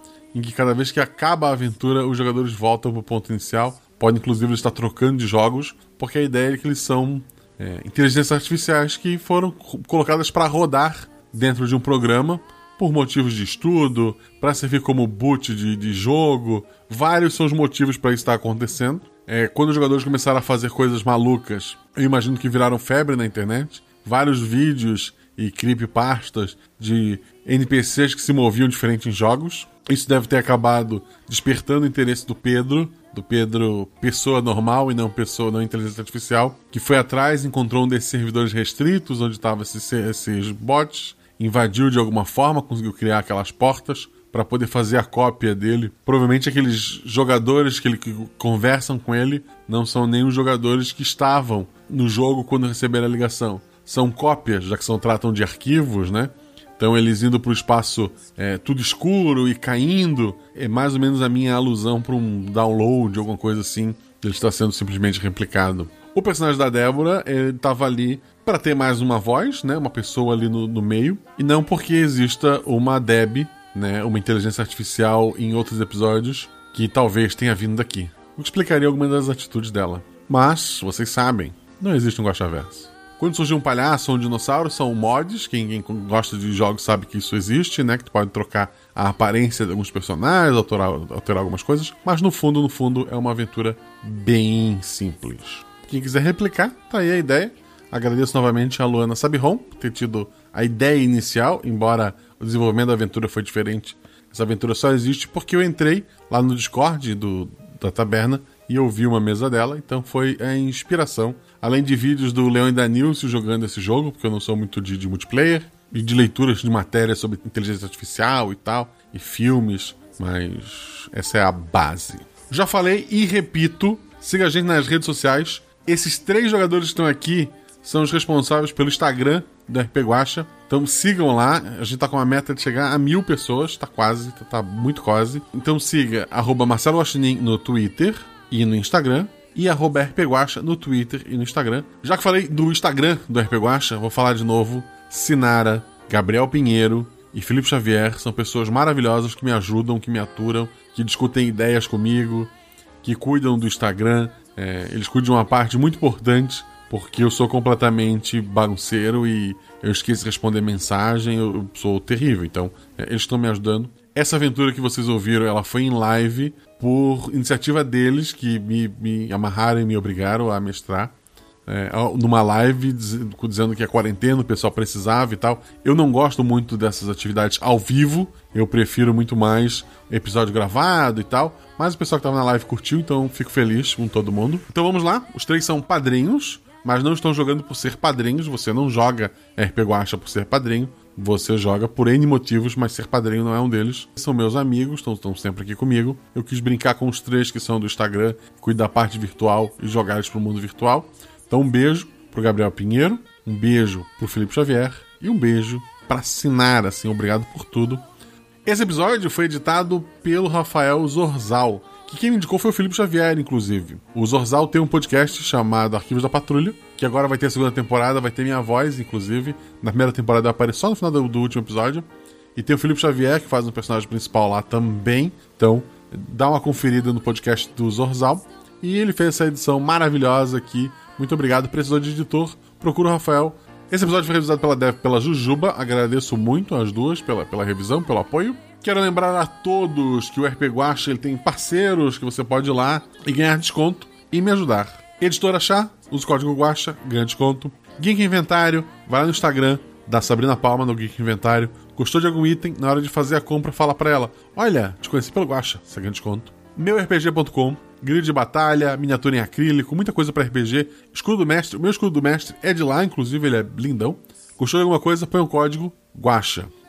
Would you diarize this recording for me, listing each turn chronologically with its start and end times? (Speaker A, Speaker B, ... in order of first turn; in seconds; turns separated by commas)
Speaker A: 0.3-152.5, Speaker A: 153.0-171.1, Speaker A: 171.7-208.0, Speaker A: 208.7-266.7